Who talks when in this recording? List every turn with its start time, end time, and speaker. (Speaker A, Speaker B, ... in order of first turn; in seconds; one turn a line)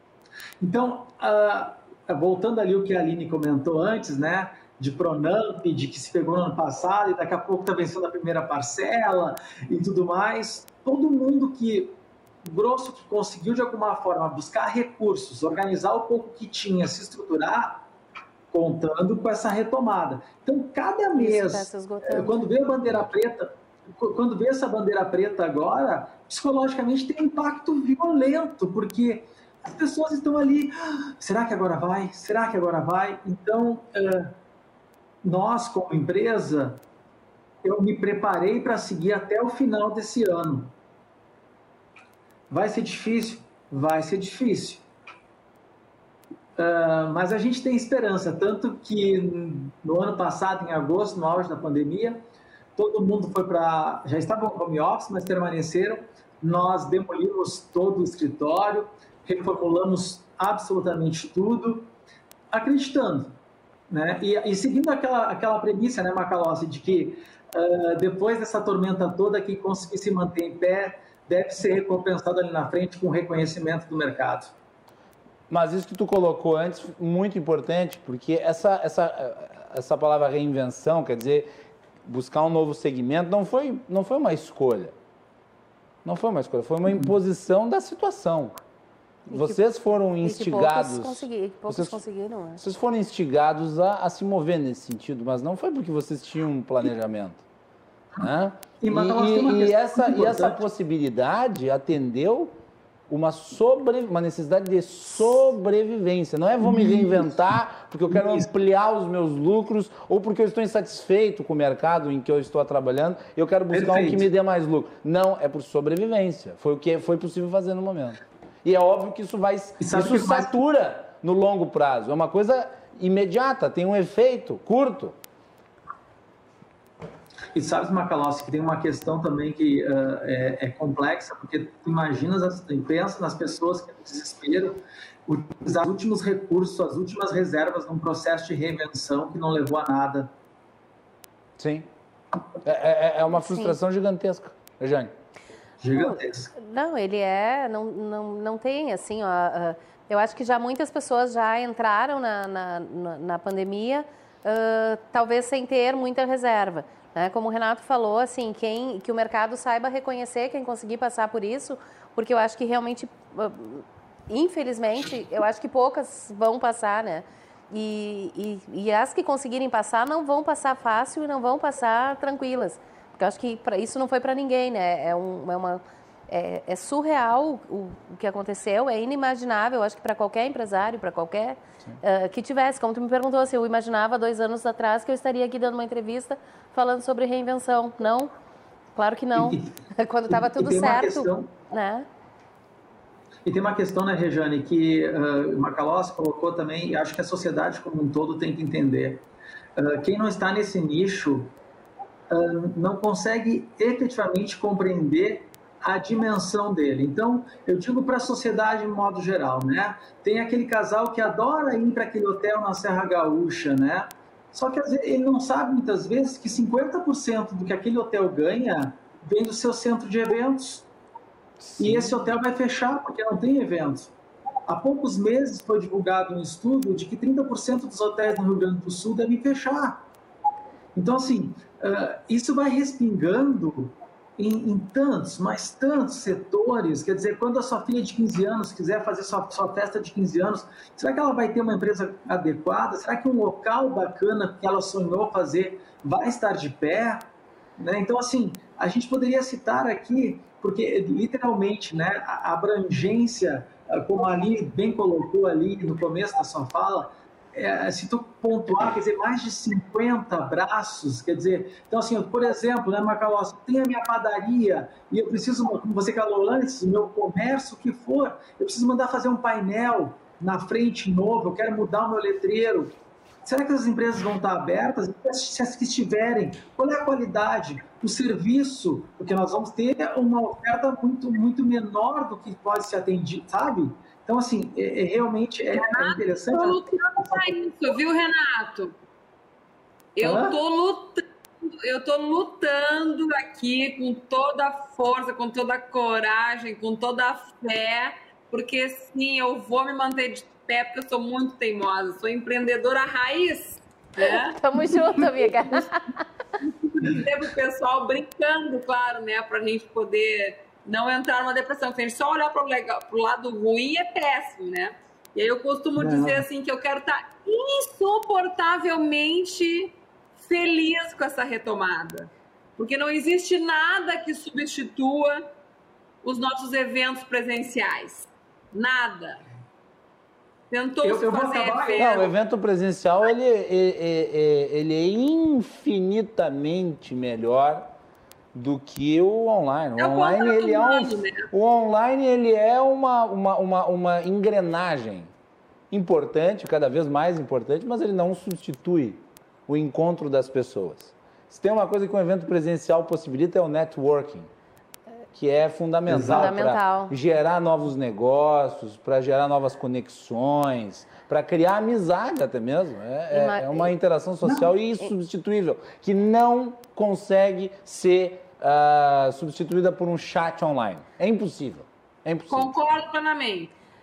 Speaker A: 0.6-17.9
Speaker A: 18.5-34.4
Speaker B: 21.1-22.4
Speaker A: 35.2-36.8
Speaker A: 37.6-40.7
Speaker A: 42.5-44.8
Speaker A: 46.6-52.2
Speaker A: 52.8-61.9
Speaker A: 62.5-63.4
Speaker A: 63.9-74.5
Speaker C: 75.5-81.5
Speaker C: 82.1-85.0
Speaker C: 86.0-88.6
Speaker B: 89.3-89.6
Speaker C: 89.3-92.0
Speaker B: 90.2-92.6
Speaker C: 92.6-97.4
Speaker C: 98.2-102.6
Speaker A: 98.8-100.6
Speaker C: 103.1-125.2
Speaker A: 106.6-107.3
Speaker A: 108.1-108.5
Speaker A: 113.7-114.3
Speaker A: 119.8-120.5
Speaker A: 127.5-140.3
Speaker C: 141.6-141.9
Speaker C: 142.6-145.1
Speaker B: 143.3-143.8
Speaker A: 145.8-146.5
Speaker B: 145.9-188.3
Speaker B: 189.0-192.1
Speaker A: 189.3-189.8
Speaker A: 190.3-191.5
Speaker A: 193.4-199.2
Speaker A: 199.8-201.5
Speaker A: 202.3-220.9
Speaker C: 221.6-222.3
Speaker A: 221.8-224.1
Speaker A: 224.7-230.0
Speaker A: 230.9-287.5
Speaker D: 285.7-288.9
Speaker D: 290.2-304.9
Speaker A: 290.2-290.6
Speaker B: 304.2-306.2
Speaker D: 306.6-325.5
Speaker A: 316.0-316.4
Speaker D: 326.2-329.4
Speaker D: 330.7-332.3
Speaker A: 331.0-332.1
Speaker C: 332.0-337.9
Speaker C: 338.5-345.3
Speaker D: 340.0-341.5
Speaker C: 345.9-354.5
Speaker C: 355.4-372.8
Speaker A: 356.1-356.5
Speaker B: 356.2-357.1
Speaker B: 363.3-363.9
Speaker D: 372.5-373.7